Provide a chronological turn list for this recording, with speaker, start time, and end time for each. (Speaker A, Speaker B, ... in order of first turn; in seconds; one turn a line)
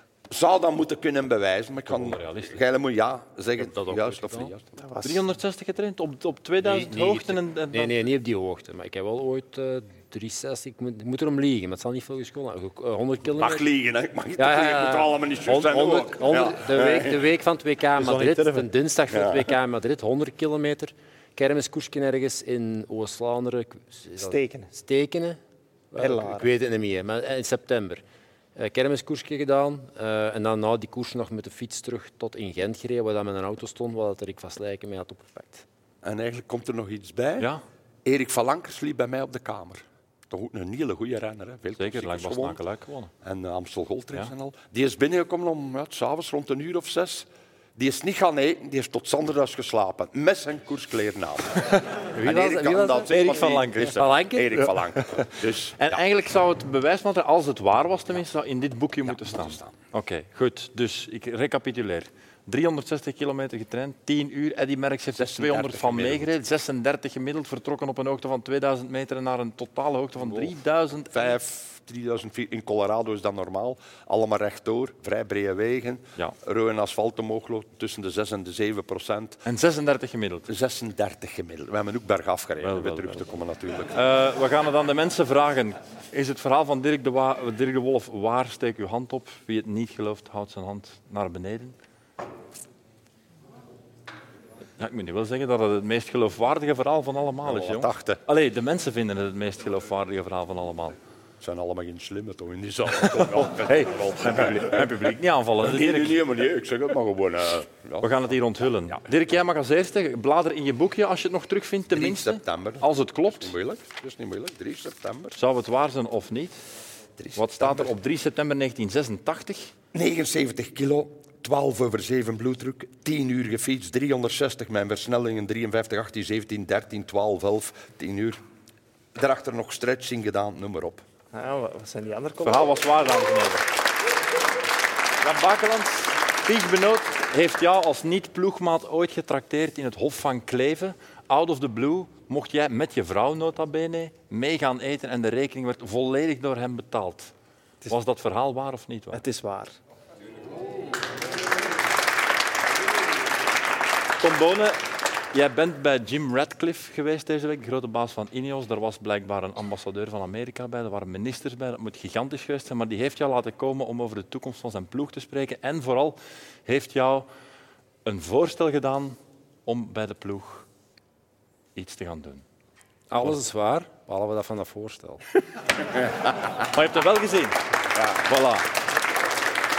Speaker A: 0.3-4.6
Speaker B: 1.9-2.6
Speaker C: 3.6-4.5
Speaker D: 4.8-5.2
Speaker B: 5.0-8.0
Speaker C: 6.6-13.7
Speaker A: 13.4-17.3
Speaker C: 14.4-25.4
Speaker D: 18.0-18.7
Speaker A: 19.1-19.5
Speaker D: 24.2-24.7
Speaker C: 25.9-28.0
Speaker D: 26.0-26.5
Speaker C: 28.6-35.6
Speaker A: 36.0-37.5
Speaker A: 38.0-42.6
Speaker B: 41.8-43.1
Speaker A: 43.2-56.0
Speaker C: 52.1-54.9
Speaker B: 53.1-54.0
Speaker B: 55.8-71.4
Speaker A: 59.1-59.7
Speaker A: 65.2-66.3
Speaker A: 70.2-70.5
Speaker A: 71.1-79.4
Speaker B: 79.5-80.5
Speaker A: 80.5-84.1
Speaker B: 82.6-83.3
Speaker B: 83.9-91.8
Speaker B: 94.8-101.0
Speaker A: 97.5-98.2
Speaker A: 101.4-108.1
Speaker B: 103.0-106.2
Speaker B: 108.0-113.5
Speaker A: 111.9-115.4
Speaker B: 115.3-116.6
Speaker A: 117.2-117.9
Speaker B: 117.3-119.7
Speaker A: 119.9-128.4
Speaker A: 129.1-131.0
Speaker D: 131.3-132.7
Speaker B: 132.4-133.7
Speaker B: 135.2-147.3
Speaker B: 147.9-149.2
Speaker D: 149.1-149.8
Speaker B: 154.2-154.8
Speaker B: 155.3-167.3
Speaker B: 168.0-170.7
Speaker B: 171.8-172.4
Speaker C: 173.1-175.2
Speaker B: 176.6-177.6
Speaker B: 178.2-178.7